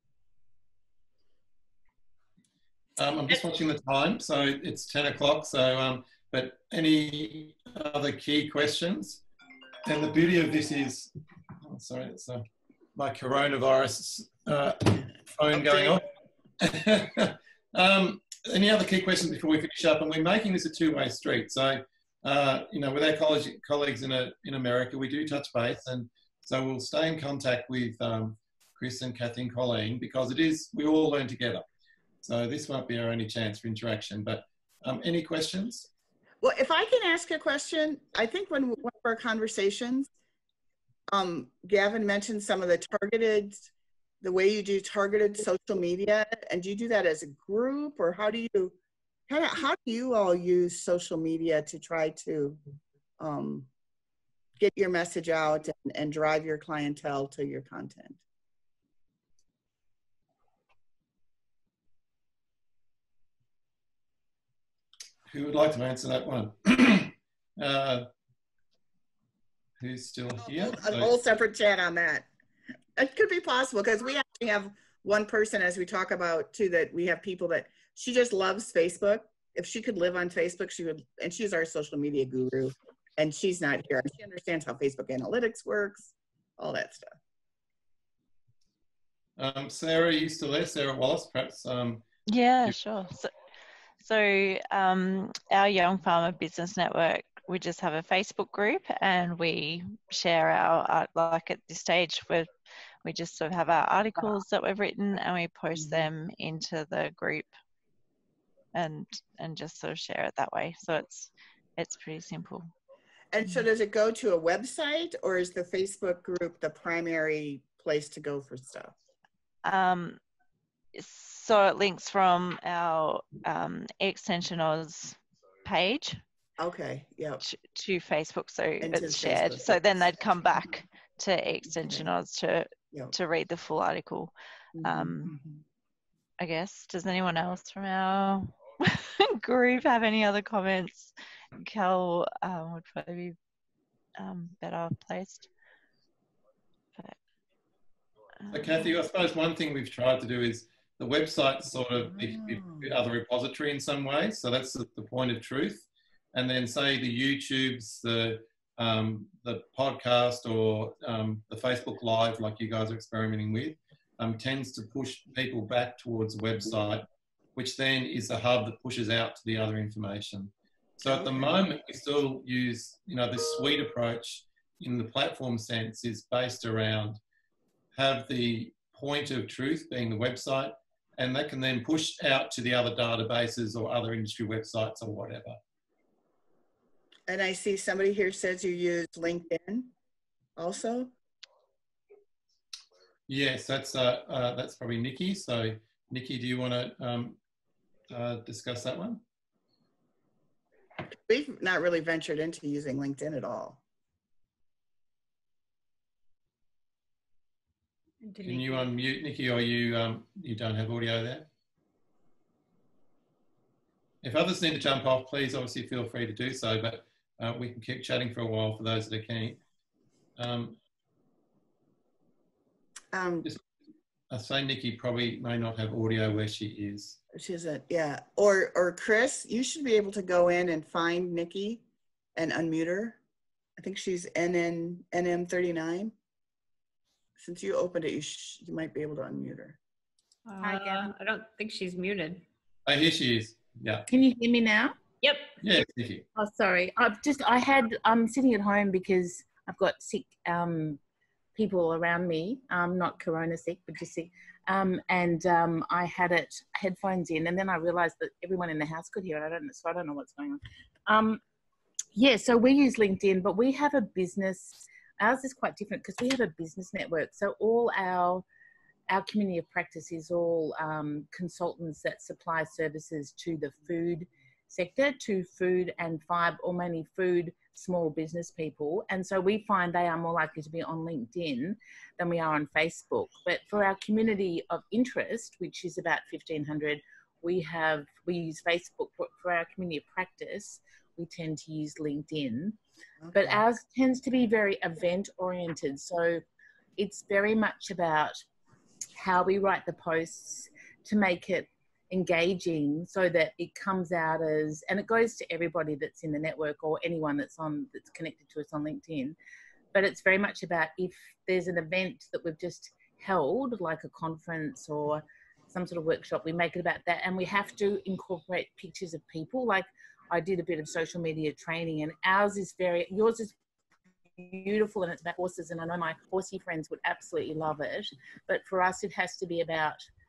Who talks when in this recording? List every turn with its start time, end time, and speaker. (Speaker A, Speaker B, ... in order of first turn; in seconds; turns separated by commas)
Speaker A: 3.0-9.2, Speaker A: 9.8-12.4, Speaker A: 12.9-16.1, Speaker B: 15.5-16.0, Speaker A: 16.6-31.7, Speaker A: 32.2-35.9, Speaker B: 36.4-40.1, Speaker B: 41.1-43.7, Speaker B: 44.2-48.8, Speaker B: 49.3-52.6, Speaker B: 53.2-53.7, Speaker B: 54.6-58.2, Speaker A: 65.3-68.1, Speaker A: 69.8-71.1, Speaker B: 70.4-72.3, Speaker B: 73.0-87.2, Speaker A: 89.4-92.0, Speaker C: 92.3-93.3, Speaker C: 94.0-102.5, Speaker C: 103.0-107.5, Speaker B: 105.8-106.0, Speaker C: 108.7-112.7, Speaker B: 113.3-118.9, Speaker C: 119.6-120.2, Speaker C: 121.0-126.2, Speaker B: 126.6-127.4, Speaker C: 127.4-134.3, Speaker B: 128.8-130.2, Speaker B: 131.8-132.1, Speaker B: 134.8-135.6, Speaker C: 134.8-135.4, Speaker C: 136.4-143.4, Speaker C: 144.2-145.5, Speaker C: 148.4-149.0, Speaker A: 148.5-177.2, Speaker B: 171.1-171.6, Speaker A: 177.9-185.6, Speaker B: 187.3-189.9, Speaker B: 190.6-191.1, Speaker A: 193.3-197.4, Speaker A: 198.1-199.2, Speaker B: 201.1-203.8, Speaker D: 208.3-208.9, Speaker A: 208.4-211.5, Speaker A: 214.2-219.6, Speaker A: 220.4-220.8, Speaker B: 223.1-223.5, Speaker A: 224.3-227.2, Speaker B: 227.3-231.8, Speaker B: 232.4-233.2, Speaker B: 233.8-236.1, Speaker B: 237.4-239.8, Speaker D: 240.4-242.4, Speaker E: 240.6-241.1, Speaker A: 242.9-244.1, Speaker E: 244.1-244.9, Speaker D: 245.2-245.5, Speaker A: 245.6-246.2, Speaker E: 246.4-251.0, Speaker E: 251.6-261.4, Speaker E: 262.1-268.4, Speaker E: 269.1-292.8, Speaker B: 293.2-293.6, Speaker E: 293.3-296.4, Speaker E: 297.0-298.4, Speaker E: 299.1-309.4, Speaker E: 309.9-323.6, Speaker E: 324.4-330.0